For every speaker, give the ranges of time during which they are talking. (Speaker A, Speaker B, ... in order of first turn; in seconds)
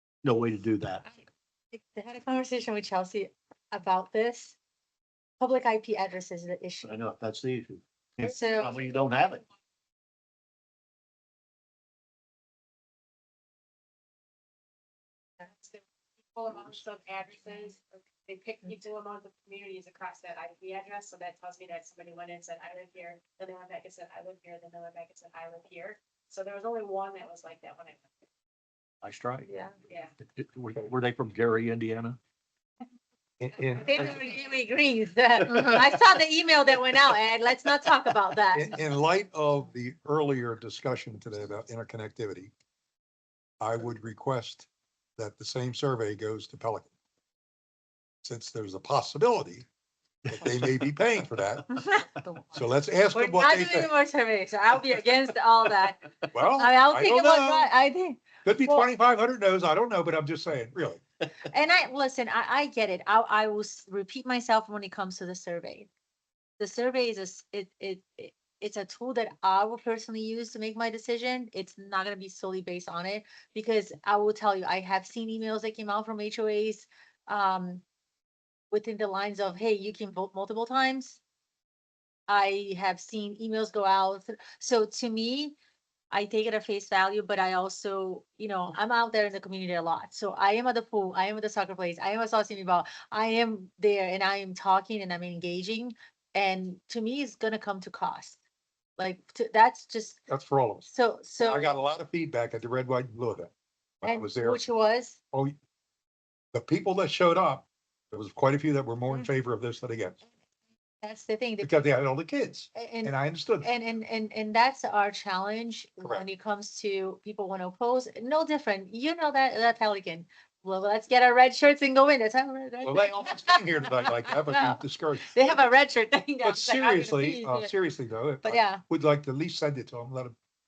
Speaker A: 0.2-1.1, 6.8-9.4, 29.0-29.5, 30.2-32.2, 50.3-50.7
Speaker B: 1.1-4.6, 5.4-6.9, 8.2-8.8, 29.5-29.8, 33.8-38.7, 53.1-56.0, 56.5-58.9, 61.5-65.9, 66.6-77.8, 78.7-81.2, 82.3-85.5, 86.1-98.4, 99.0-100.2, 100.8-101.7, 104.0-105.2, 111.0-111.7, 112.8-127.7, 128.4-128.8
Speaker C: 15.4-15.8, 16.3-28.1, 29.8-30.1
Speaker D: 33.4-34.2, 38.5-42.5, 43.6-44.7, 45.2-46.9, 48.2-49.7, 50.3-51.7, 52.5-53.9, 56.3-57.7, 58.5-61.0, 100.3-100.9, 101.4-104.6, 106.5-110.2, 111.6-113.7, 122.8-125.6, 126.4-130.3